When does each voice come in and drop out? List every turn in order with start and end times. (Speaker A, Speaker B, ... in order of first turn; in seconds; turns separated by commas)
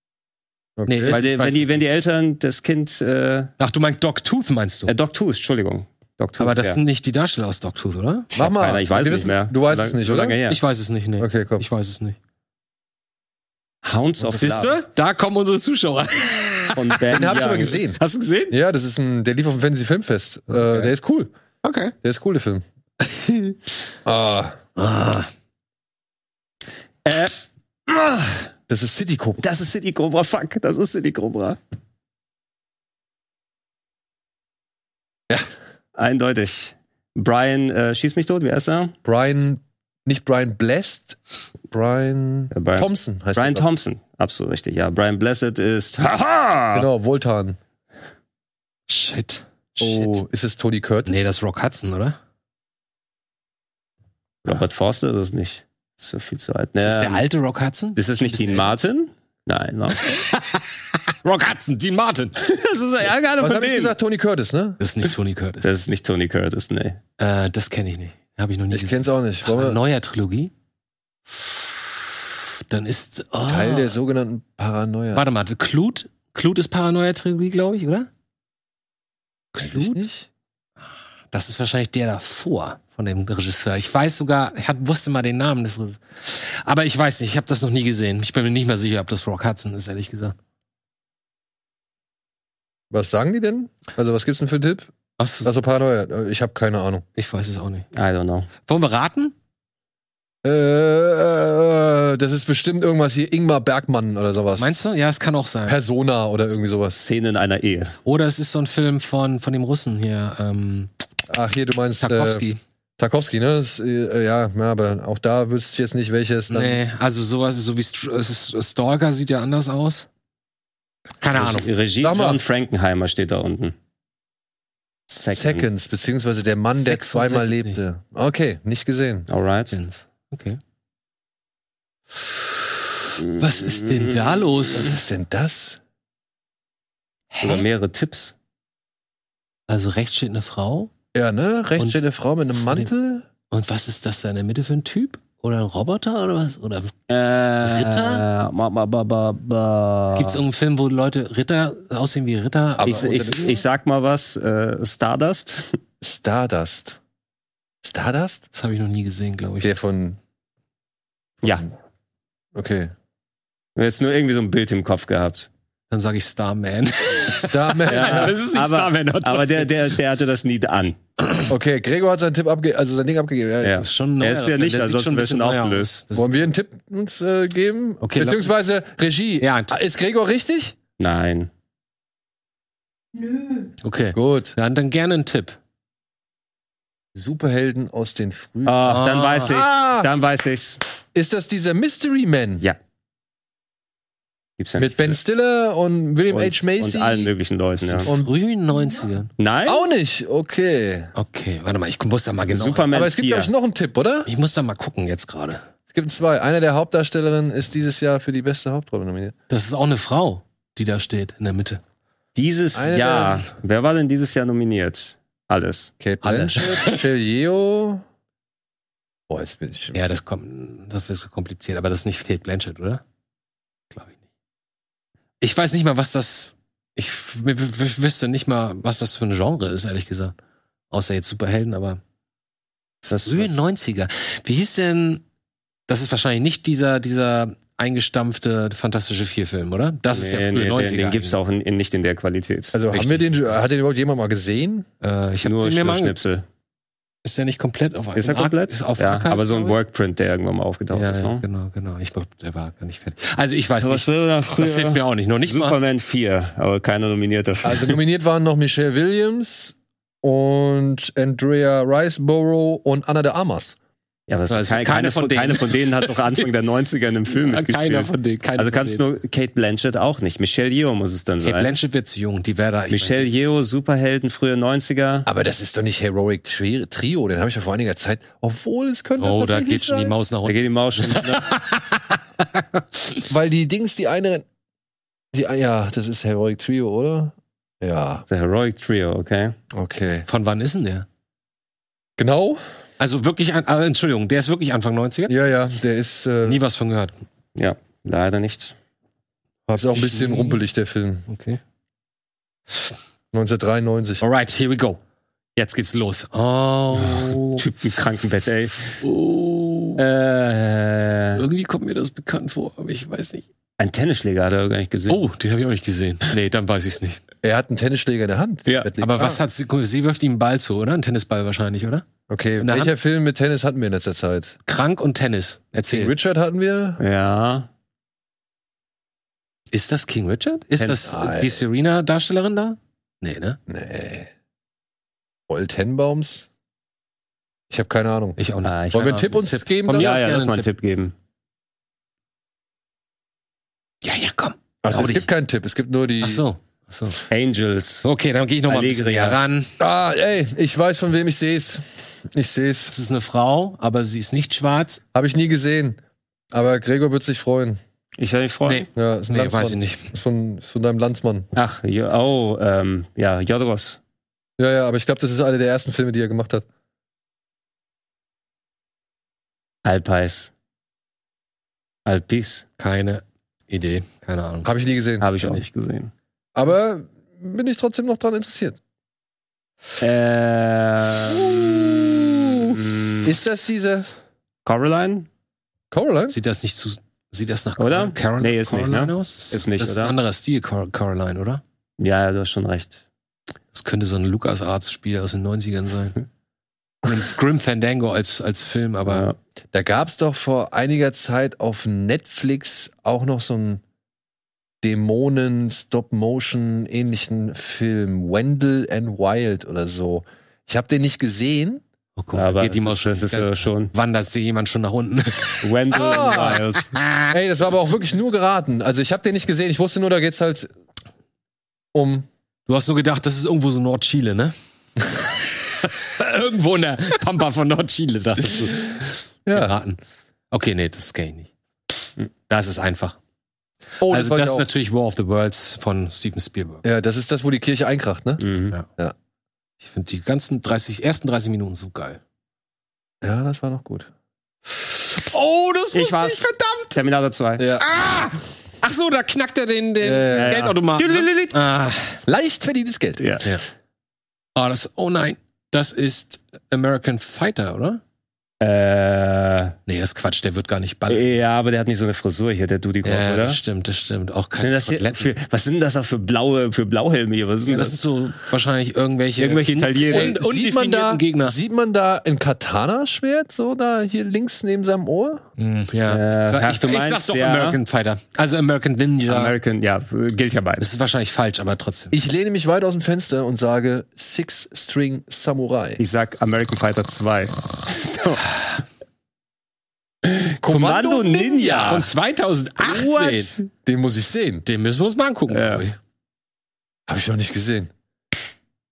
Speaker A: 0.8-1.2, Speaker B: 0.9-1.8, Speaker C: 1.1-3.5, Speaker B: 3.6-4.9, Speaker C: 4.9-6.8, Speaker B: 6.4-8.3, Speaker A: 8.3-10.4, Speaker C: 8.4-10.6, Speaker B: 10.5-12.2, Speaker A: 11.2-11.7, Speaker C: 13.8-14.8, Speaker B: 14.4-17.2, Speaker C: 16.7-17.8, Speaker A: 17.1-18.0, Speaker B: 18.0-18.6, Speaker A: 18.5-21.3, Speaker B: 21.6-21.9, Speaker A: 22.0-22.6, Speaker B: 23.1-23.6, Speaker A: 24.1-24.6, Speaker B: 24.8-25.3, Speaker C: 27.1-28.5, Speaker A: 28.7-29.4, Speaker C: 29.4-31.6, Speaker C: 36.0-38.9, Speaker A: 39.0-41.2, Speaker A: 41.7-43.7, Speaker C: 42.5-46.9, Speaker A: 46.7-47.6, Speaker B: 48.9-50.2, Speaker A: 49.8-51.2, Speaker B: 51.1-52.2, Speaker C: 54.5-57.2, Speaker B: 56.8-58.7, Speaker C: 58.0-60.0, Speaker B: 60.0-60.7, Speaker B: 61.2-62.4, Speaker C: 62.4-63.9, Speaker A: 63.4-64.8, Speaker B: 64.8-65.7, Speaker C: 65.6-67.0, Speaker B: 67.2-70.5, Speaker A: 68.7-69.8, Speaker B: 71.3-74.0, Speaker A: 73.5-75.2, Speaker B: 75.1-78.1, Speaker B: 79.5-80.1, Speaker A: 79.6-80.3, Speaker B: 81.3-90.4, Speaker A: 92.9-94.9, Speaker B: 95.2-95.5, Speaker A: 95.4-97.0, Speaker B: 97.2-97.9, Speaker C: 97.9-98.5, Speaker B: 98.6-99.3, Speaker A: 100.4-104.8, Speaker B: 104.6-105.8, Speaker A: 105.7-107.0, Speaker C: 106.9-108.0, Speaker B: 108.0-110.9, Speaker A: 111.3-112.5, Speaker B: 112.0-112.6, Speaker A: 113.0-116.8, Speaker B: 116.5-120.1, Speaker B: 121.2-121.7, Speaker C: 121.3-123.8, Speaker A: 122.0-122.4, Speaker C: 125.1-125.7, Speaker A: 125.3-129.3, Speaker B: 126.7-127.8, Speaker C: 129.3-129.8, Speaker B: 129.7-130.6, Speaker C: 133.2-134.4, Speaker B: 133.3-134.9, Speaker A: 134.7-135.8, Speaker B: 137.3-137.6, Speaker C: 137.4-138.3, Speaker B: 139.7-140.9, Speaker A: 141.2-143.3, Speaker B: 142.6-142.9, Speaker B: 143.5-146.9, Speaker C: 147.1-150.4, Speaker B: 147.6-148.2, Speaker B: 150.2-153.6, Speaker A: 152.8-153.5, Speaker C: 152.8-155.8, Speaker A: 156.0-157.0, Speaker A: 157.8-158.5, Speaker B: 158.5-159.8, Speaker A: 159.6-160.2, Speaker A: 161.4-161.7, Speaker A: 162.6-162.9, Speaker C: 163.8-165.5, Speaker B: 165.9-169.9, Speaker A: 167.3-168.4, Speaker C: 167.9-171.0, Speaker A: 171.5-173.8, Speaker C: 173.6-175.9, Speaker B: 173.8-176.4, Speaker A: 176.2-180.8, Speaker B: 178.0-178.5, Speaker B: 179.4-179.7, Speaker C: 181.0-181.5, Speaker B: 183.8-185.6, Speaker A: 184.1-184.6, Speaker A: 187.2-188.8, Speaker C: 188.7-190.8, Speaker B: 188.8-189.6, Speaker A: 189.4-190.1, Speaker A: 191.2-192.7, Speaker C: 194.6-195.2, Speaker A: 194.8-197.3, Speaker C: 196.3-198.1, Speaker B: 197.9-199.3, Speaker A: 198.0-198.3, Speaker C: 199.4-199.8, Speaker A: 199.7-201.1, Speaker B: 201.2-202.9, Speaker C: 202.5-203.5, Speaker A: 202.9-204.3, Speaker B: 204.3-205.6, Speaker A: 205.9-209.3, Speaker B: 209.5-211.8, Speaker C: 212.4-215.9, Speaker A: 212.7-213.4, Speaker A: 216.0-218.0, Speaker B: 216.2-217.0, Speaker A: 219.3-220.0, Speaker B: 219.9-223.0, Speaker B: 223.9-224.2, Speaker B: 225.4-230.3, Speaker B: 230.9-232.0, Speaker C: 233.1-233.6, Speaker B: 233.2-235.2, Speaker B: 235.9-241.4, Speaker C: 240.1-242.8, Speaker A: 242.7-244.9, Speaker B: 242.9-243.4, Speaker B: 245.0-246.2, Speaker C: 245.4-246.4, Speaker B: 247.2-249.8, Speaker C: 248.2-251.4, Speaker B: 250.9-255.8, Speaker C: 253.8-258.0, Speaker A: 257.6-263.8, Speaker C: 264.3-271.7, Speaker B: 264.5-266.4, Speaker B: 267.3-269.0, Speaker B: 271.4-273.3, Speaker C: 272.9-275.3, Speaker A: 275.3-280.1, Speaker B: 279.2-282.0, Speaker C: 280.5-281.6, Speaker B: 282.6-283.2, Speaker A: 283.3-284.4, Speaker A: 285.3-288.2, Speaker C: 288.3-289.6, Speaker A: 289.7-290.3, Speaker B: 290.3-291.1, Speaker A: 292.2-292.6, Speaker B: 293.0-295.3, Speaker A: 295.3-296.6, Speaker B: 296.4-297.2, Speaker C: 297.6-298.8, Speaker B: 299.7-300.6, Speaker A: 299.8-301.3, Speaker B: 301.3-301.6, Speaker A: 303.3-304.2, Speaker B: 304.2-305.0, Speaker B: 305.6-307.6, Speaker C: 307.0-309.0, Speaker B: 309.0-310.0, Speaker C: 310.0-311.4, Speaker B: 311.4-313.4, Speaker C: 313.8-315.2, Speaker B: 315.1-317.2, Speaker A: 317.4-319.4, Speaker B: 319.0-322.1, Speaker A: 322.3-324.6, Speaker B: 322.6-322.9, Speaker B: 324.7-326.1, Speaker A: 325.9-327.0, Speaker C: 327.0-327.7, Speaker B: 329.7-333.6, Speaker C: 330.8-331.1, Speaker A: 331.1-331.6, Speaker A: 333.7-334.3, Speaker A: 335.5-336.4, Speaker A: 337.7-338.4, Speaker B: 338.4-340.7, Speaker C: 338.6-341.1, Speaker A: 338.9-340.1, Speaker B: 344.0-345.3, Speaker A: 344.8-346.4, Speaker B: 346.2-347.2, Speaker C: 347.3-348.1, Speaker B: 348.0-349.7, Speaker C: 348.7-349.4, Speaker A: 349.8-352.9, Speaker B: 352.9-355.0, Speaker A: 355.1-356.0, Speaker A: 356.5-357.8, Speaker C: 358.2-358.9, Speaker B: 358.7-360.1, Speaker A: 359.0-361.5, Speaker C: 361.5-364.0, Speaker A: 364.6-366.7, Speaker C: 369.8-370.5, Speaker C: 372.1-372.6, Speaker B: 372.8-374.7, Speaker A: 374.6-375.3, Speaker C: 375.2-376.1, Speaker B: 375.4-375.6, Speaker A: 376.6-378.8, Speaker C: 380.0-383.3, Speaker A: 381.3-384.1, Speaker C: 384.7-385.3, Speaker A: 385.9-386.4, Speaker B: 386.3-391.6, Speaker C: 387.8-390.1, Speaker C: 392.0-393.0, Speaker B: 393.7-396.2, Speaker B: 397.0-399.3, Speaker C: 399.1-399.4, Speaker A: 399.7-403.8, Speaker A: 404.8-411.8, Speaker B: 412.2-417.4, Speaker C: 412.3-413.9, Speaker C: 415.6-416.9, Speaker A: 415.9-416.6, Speaker A: 417.3-420.7, Speaker A: 421.9-422.3, Speaker B: 422.7-430.0, Speaker A: 429.5-429.7, Speaker B: 430.5-431.5, Speaker B: 432.5-433.2, Speaker A: 434.0-434.7, Speaker B: 434.1-436.8, Speaker A: 436.8-438.4, Speaker C: 438.4-438.7, Speaker B: 439.8-442.2, Speaker A: 443.2-444.1, Speaker B: 445.2-446.9, Speaker C: 445.9-447.7, Speaker A: 447.6-447.9, Speaker B: 447.8-452.2, Speaker A: 450.0-450.6, Speaker C: 450.3-451.6, Speaker A: 452.3-453.2, Speaker C: 453.2-453.5, Speaker B: 454.6-458.0, Speaker C: 458.6-459.8, Speaker B: 459.9-461.3, Speaker C: 461.1-463.6, Speaker B: 463.0-465.3, Speaker C: 464.6-468.0, Speaker B: 467.7-471.6, Speaker C: 469.4-470.4, Speaker A: 470.1-475.4, Speaker B: 475.6-479.5, Speaker C: 476.1-477.8, Speaker C: 479.3-480.9, Speaker B: 480.8-482.1, Speaker A: 482.1-486.0, Speaker C: 486.0-488.5, Speaker C: 490.2-492.1, Speaker A: 490.6-492.0, Speaker B: 491.8-493.6, Speaker C: 492.8-493.7, Speaker A: 493.8-494.6, Speaker B: 494.6-496.0, Speaker C: 495.5-495.9, Speaker A: 497.1-497.9